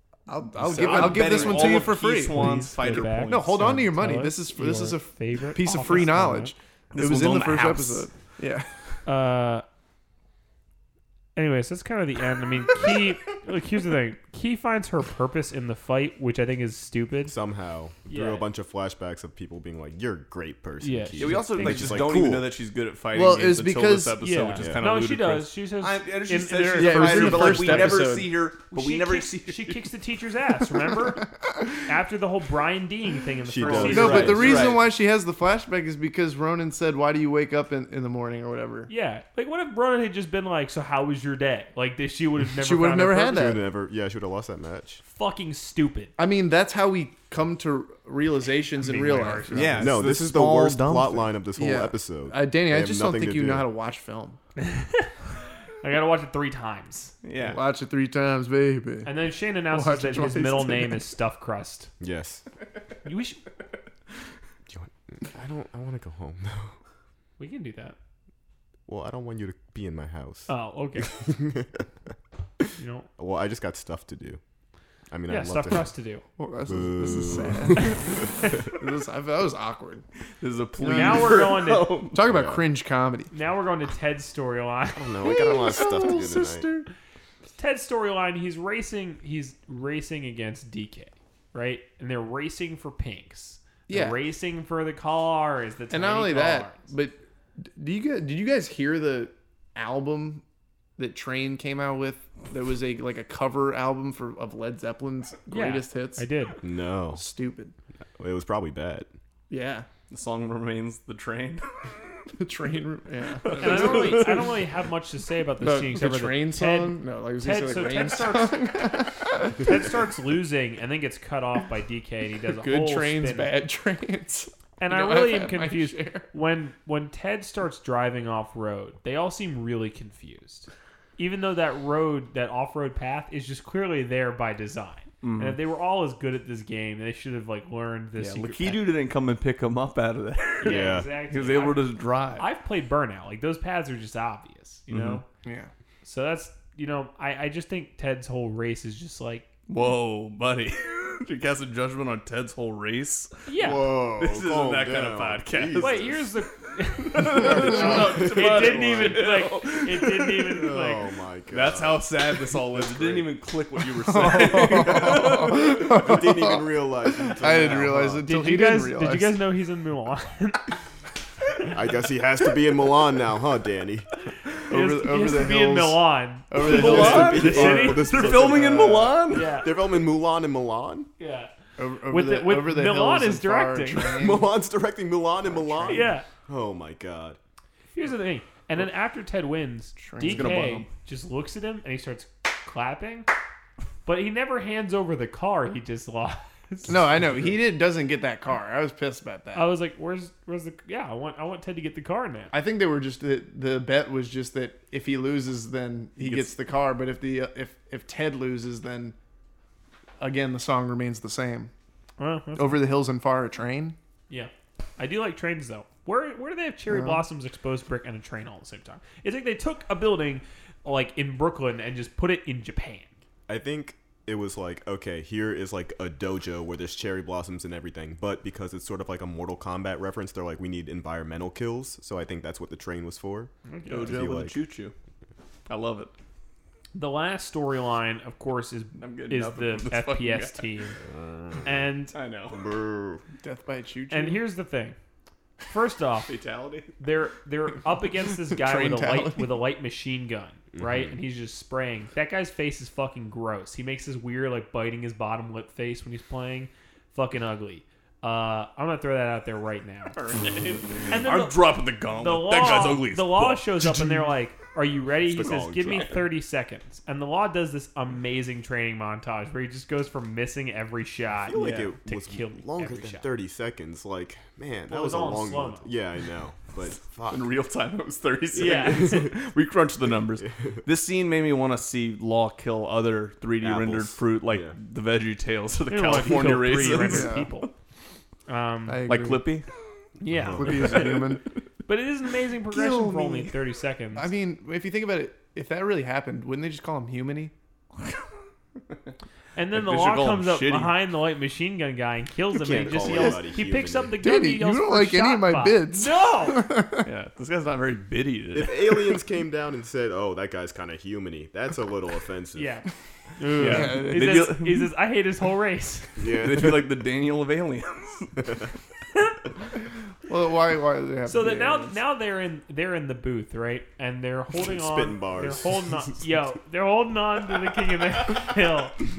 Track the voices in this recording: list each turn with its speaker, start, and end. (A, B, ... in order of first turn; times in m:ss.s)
0:00.3-0:08.7 A
0:00.6-0:03.8 B
0:00.7-0:06.5 C
0:06.9-0:08.1 B
0:09.1-0:09.6 C
0:11.4-0:17.4 C
0:17.3-0:22.5 D
0:18.1-0:18.5 C
0:20.8-0:22.2 C
0:21.2-0:29.9 B
0:23.1-0:24.2 A
0:24.2-0:28.2 C
0:24.6-0:24.8 D
0:26.8-0:28.3 A
0:28.7-0:31.3 C
0:31.8-0:34.7 C
0:33.4-0:34.8 D
0:33.6-0:34.8 B
0:33.6-0:38.9 A
0:38.9-0:43.5 C
0:42.5-0:43.6 A
0:43.3-0:45.0 D
0:45.0-0:46.1 C
0:46.2-0:50.0 A
0:48.8-0:49.8 C
0:49.5-0:51.3 B
0:49.8-0:53.7 D
0:51.6-0:54.4 A
0:54.6-0:55.1 C
0:55.8-0:57.1 C
0:57.2-0:57.6 B
0:57.4-0:59.1 A
0:59.0-1:01.9 C
0:59.7-1:01.1 A
1:02.0-1:02.4 D
1:03.0-1:03.4 C
1:04.7-1:06.8 D
1:07.4-1:08.0 C
1:08.9-1:10.5 D
1:10.5-1:11.3 C
1:11.0-1:11.9 D
1:12.8-1:13.1 C
1:13.2-1:14.4 D
1:15.1-1:15.9 D
1:15.3-1:16.2 C
1:16.4-1:20.0 A
1:16.7-1:18.5 D
1:20.4-1:22.2 B
1:20.8-1:23.3 A
1:20.9-1:22.0 C
1:22.2-1:22.6 D
1:23.3-1:25.2 C
1:25.0-1:26.7 D
1:25.2-1:26.9 A
1:27.5-1:36.8 C
1:33.9-1:34.2 A
1:35.9-1:40.4 A
1:41.0-1:46.2 A
1:45.5-1:46.6 C
1:46.6-1:47.2 D
1:47.1-1:47.7 A
1:48.2-1:49.1 D
1:49.5-1:49.9 A
1:50.1-1:51.6 B
1:52.4-1:54.5 A
1:53.4-1:54.6 B
1:53.6-1:58.8 C
1:55.6-1:59.8 A
1:59.5-2:03.5 C
2:02.5-2:06.3 A
2:04.8-2:18.9 C
2:15.2-2:15.6 B
2:18.2-2:22.5 B
2:20.6-2:25.2 C
2:20.6-2:21.1 D
2:24.9-2:25.2 B
2:25.4-2:25.7 A
2:26.0-2:29.5 C
2:29.7-2:36.2 B
2:33.5-2:34.0 C
2:33.6-2:36.3 D
2:35.8-2:41.0 C
2:37.1-2:40.6 B
2:37.3-2:38.2 A
2:37.4-2:39.3 D
2:40.5-2:43.3 D
2:41.5-2:46.0 B
2:44.0-2:49.4 A
2:44.7-2:48.2 D
2:47.5-2:48.0 B
2:48.2-2:50.7 C
2:51.6-2:54.2 D
2:54.7-2:58.3 C
2:54.7-2:59.2 A
2:56.6-2:59.6 B
2:56.6-3:01.1 D
2:59.3-2:59.8 C
3:01.2-3:01.5 C
3:01.8-3:04.5 A
3:02.0-3:04.3 C
3:04.2-3:07.4 D
3:05.4-3:06.2 A
3:05.9-3:06.3 C
3:07.9-3:13.3 C
3:10.0-3:10.5 A
3:10.2-3:10.9 B
3:14.1-3:17.0 C
3:16.9-3:19.7 A
3:19.6-3:22.5 C
3:22.5-3:29.2 A
3:26.2-3:26.5 B
3:30.2-3:31.7 A
3:32.2-3:32.9 C
3:32.6-3:34.0 A
3:34.3-3:43.1 C
3:36.9-3:37.2 A
3:43.5-3:53.5 D
3:53.7-3:54.2 C
3:53.9-3:54.9 B
3:54.1-3:54.6 D
3:55.7-3:56.1 B
3:56.9-4:01.0 C
3:59.0-4:00.7 B
4:01.1-4:01.8 D
4:01.6-4:02.2 C
4:02.1-4:02.6 B
4:02.5-4:03.2 D
4:03.4-4:04.4 A
4:04.1-4:05.0 C
4:05.6-4:06.4 C
4:06.3-4:06.9 B
4:07.0-4:20.2 C
4:08.5-4:09.6 A
4:10.7-4:11.2 D
4:20.1-4:24.2 B
4:21.1-4:33.3 C
4:25.2-4:26.2 D
4:25.5-4:26.2 B
4:31.4-4:37.5 D
4:31.6-4:31.9 B
4:34.9-4:35.9 C
4:37.3-4:47.7 B
4:38.5-4:39.3 D
4:38.6-4:39.3 C
4:40.4-4:40.8 D
4:43.6-4:44.7 D
4:45.9-4:47.7 C
4:47.0-4:47.5 A
4:48.5-4:49.0 C
4:48.9-4:49.4 A
4:49.1-4:49.7 B
4:50.2-4:54.3 C
4:50.2-4:51.0 D
4:50.6-4:51.4 A
4:52.7-4:53.6 B
4:54.2-4:57.5 A
4:59.6-5:06.7 C
4:59.7-5:00.9 B
5:02.6-5:04.2 D
5:03.0-5:03.5 B
5:04.2-5:07.1 A
5:07.0-5:09.2 B
5:08.5-5:12.8 D
5:12.6-5:12.9 C
5:13.4-5:16.2 C
5:13.6-5:14.9 B
5:13.6-5:14.5 A
5:16.2-5:16.9 D
5:16.2-5:18.4 B
5:20.3-5:22.0 A
5:21.3-5:29.0 C
5:24.6-5:25.9 D